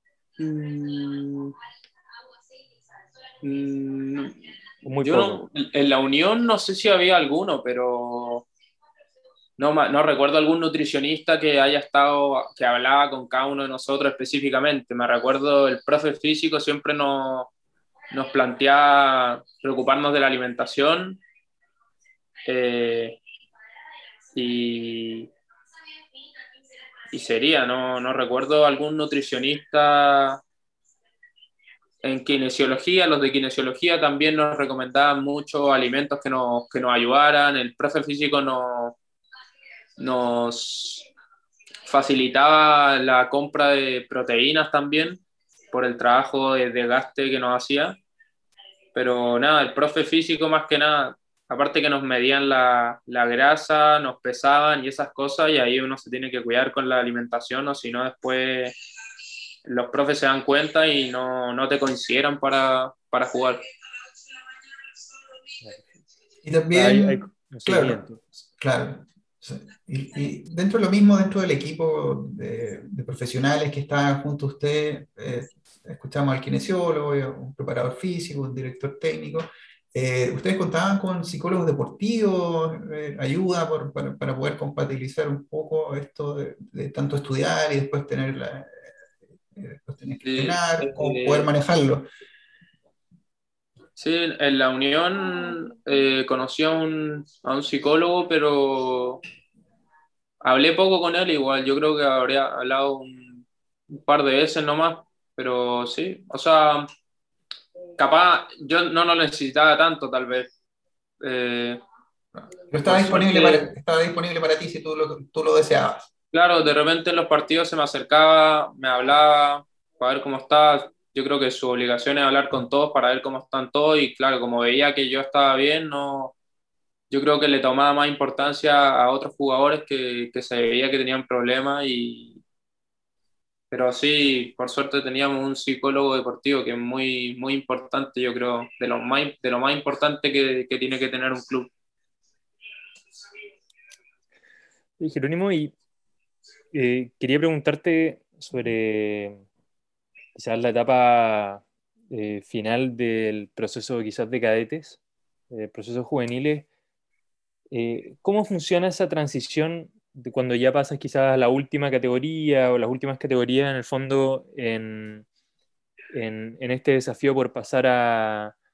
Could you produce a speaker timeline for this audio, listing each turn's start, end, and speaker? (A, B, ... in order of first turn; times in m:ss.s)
0:00.4-0:01.5 A
0:03.4-0:04.4 A
0:04.8-0:05.4 B
0:05.0-0:08.4 A
0:09.6-0:17.5 A
0:18.1-0:21.2 A
0:22.4-0:23.2 A
0:24.3-0:25.3 A
0:27.1-0:30.4 A
0:32.0-0:39.0 A
0:40.0-0:41.0 A
0:41.8-0:45.2 A
0:45.7-0:48.0 A
0:48.9-0:58.8 A
0:59.6-1:03.6 A
1:05.6-1:05.9 B
1:06.4-1:08.0 C
1:06.7-1:08.2 B
1:08.6-1:28.7 C
1:29.5-1:32.0 C
1:30.2-1:31.5 A
1:34.0-1:39.2 A
1:40.4-1:46.9 A
1:48.0-1:50.5 A
1:51.2-1:51.8 A
1:52.3-1:56.1 C
1:52.8-1:53.7 A
1:56.3-2:06.3 A
2:07.1-2:12.4 A
2:13.7-2:21.7 A
2:25.0-2:25.7 B
2:26.7-2:29.4 B
2:30.3-2:35.0 B
2:35.5-2:36.7 B
2:37.7-2:45.2 B
2:46.1-2:48.5 B